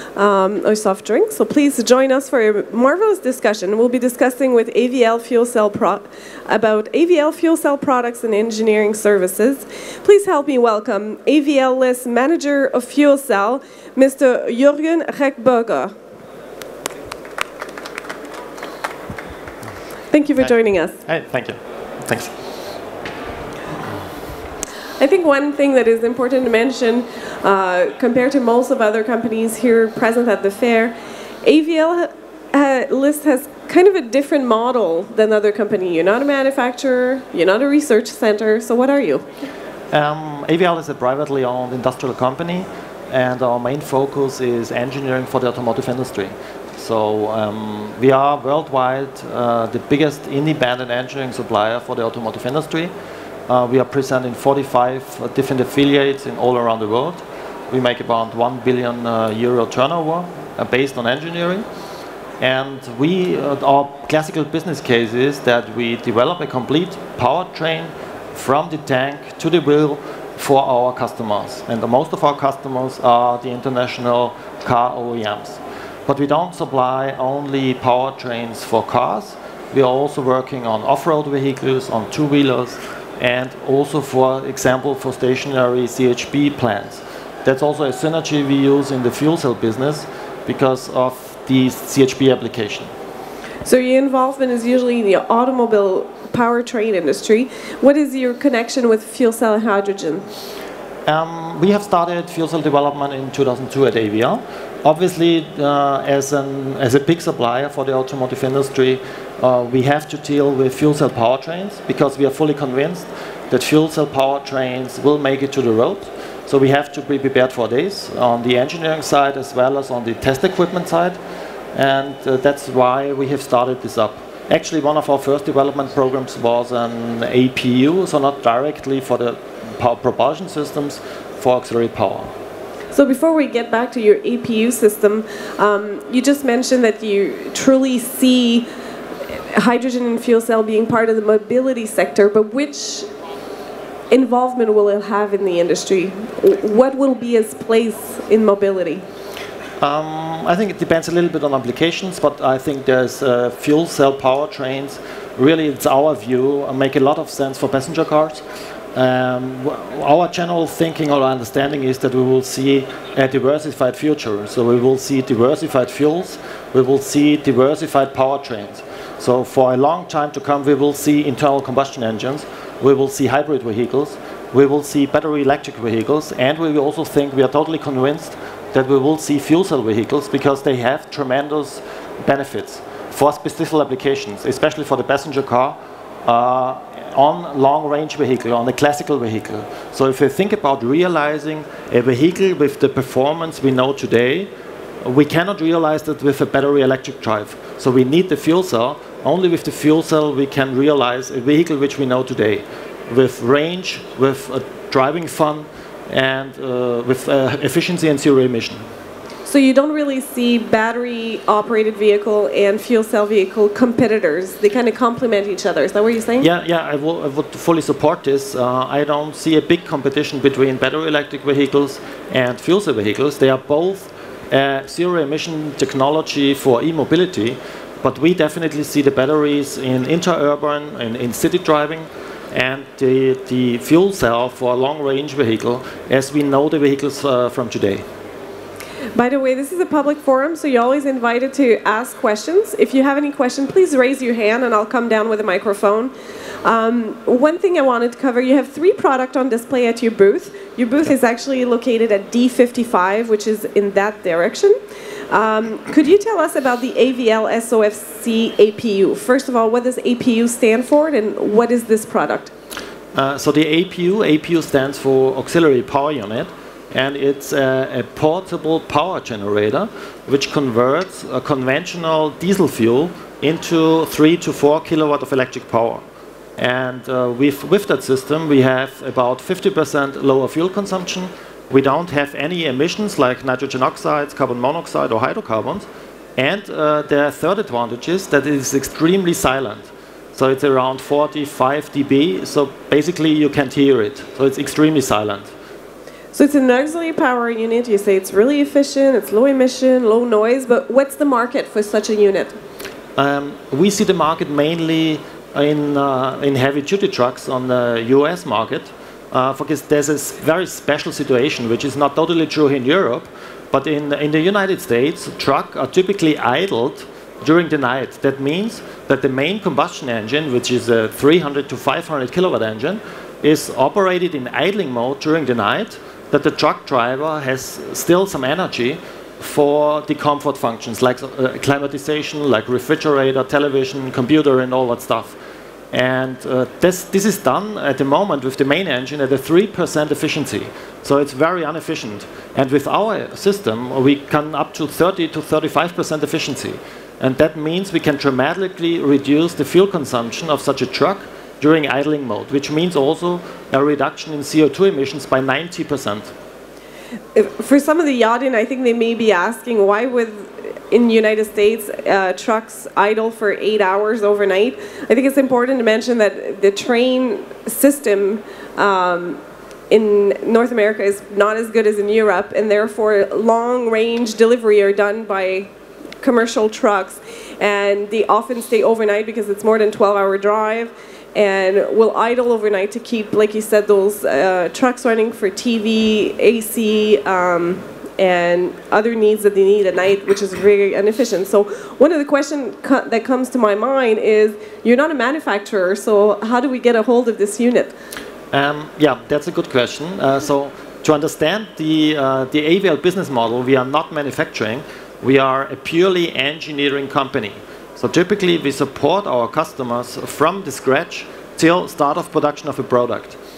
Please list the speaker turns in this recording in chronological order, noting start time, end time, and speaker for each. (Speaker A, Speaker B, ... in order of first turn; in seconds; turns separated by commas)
Speaker A: 0.1-15.9, Speaker A: 20.1-21.0, Speaker B: 21.1-22.3, Speaker A: 25.0-30.9, Speaker A: 31.4-39.2, Speaker B: 39.9-52.9, Speaker B: 53.5-61.6, Speaker B: 62.4-92.9, Speaker A: 93.6-100.2, Speaker B: 101.0-121.2, Speaker B: 121.7-132.3, Speaker A: 132.9-138.7, Speaker A: 139.5-143.1, Speaker A: 144.1-149.0, Speaker B: 149.8-158.4, Speaker B: 158.9-194.5, Speaker B: 195.0-208.8, Speaker A: 209.4-216.5, Speaker B: 216.4-238.0, Speaker A: 239.2-246.1, Speaker A: 246.6-254.7, Speaker A: 255.3-262.5, Speaker B: 263.1-276.0, Speaker B: 276.6-285.9, Speaker B: 286.4-295.5, Speaker A: 296.3-302.5, Speaker B: 303.2-335.4, Speaker B: 335.9-356.3, Speaker A: 357.3-375.7, Speaker A: 376.2-397.9, Speaker B: 398.5-413.4